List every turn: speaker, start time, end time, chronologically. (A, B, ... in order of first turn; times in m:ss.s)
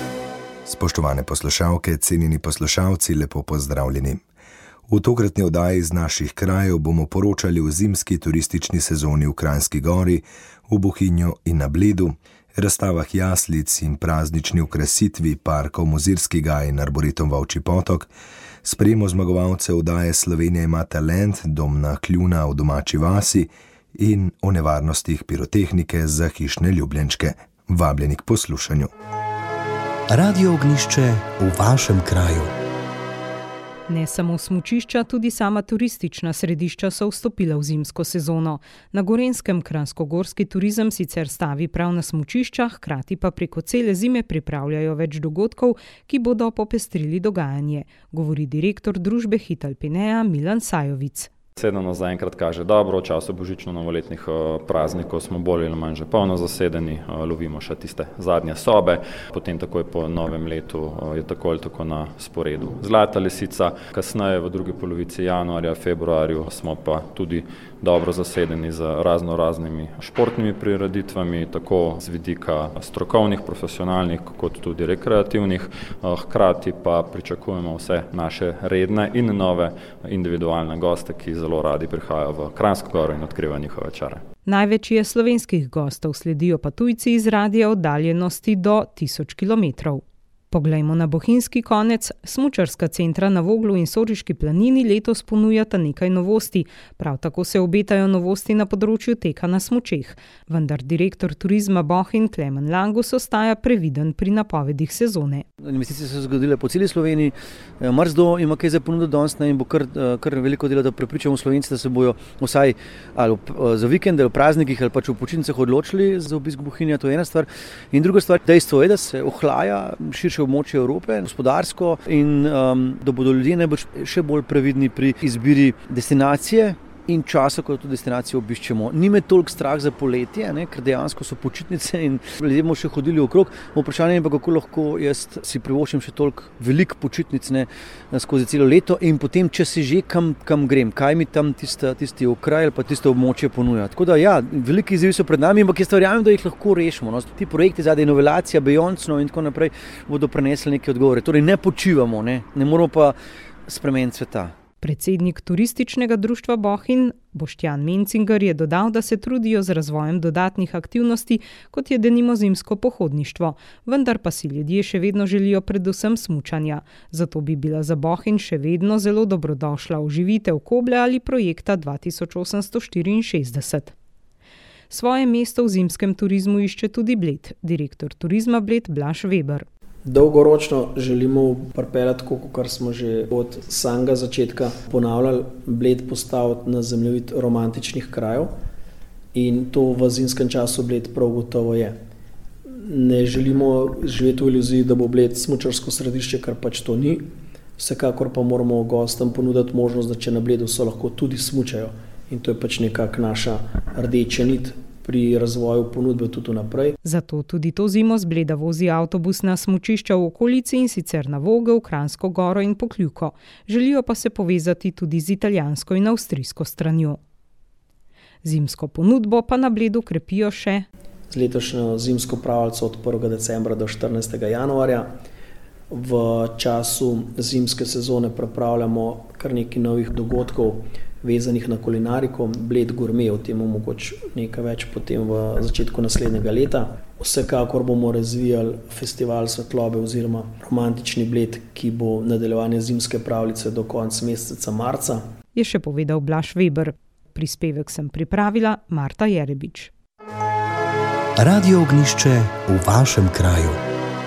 0:00.7-0:04.2 A
0:04.9-0:18.1 A
0:18.6-0:28.9 A
0:30.1-0:32.5 B
0:33.9-0:51.3 C
0:51.6-1:24.2 D
1:24.4-1:45.4 C
1:45.6-2:34.5 E
2:34.8-2:53.9 C
2:54.9-2:59.7 C
3:00.1-3:08.5 F
3:09.3-3:12.0 F
3:12.9-3:27.0 F
3:27.0-3:37.2 C
3:38.4-3:40.9 C
3:41.3-3:45.1 F
3:45.9-4:05.2 F
4:05.5-4:09.9 C
4:11.4-4:13.8 B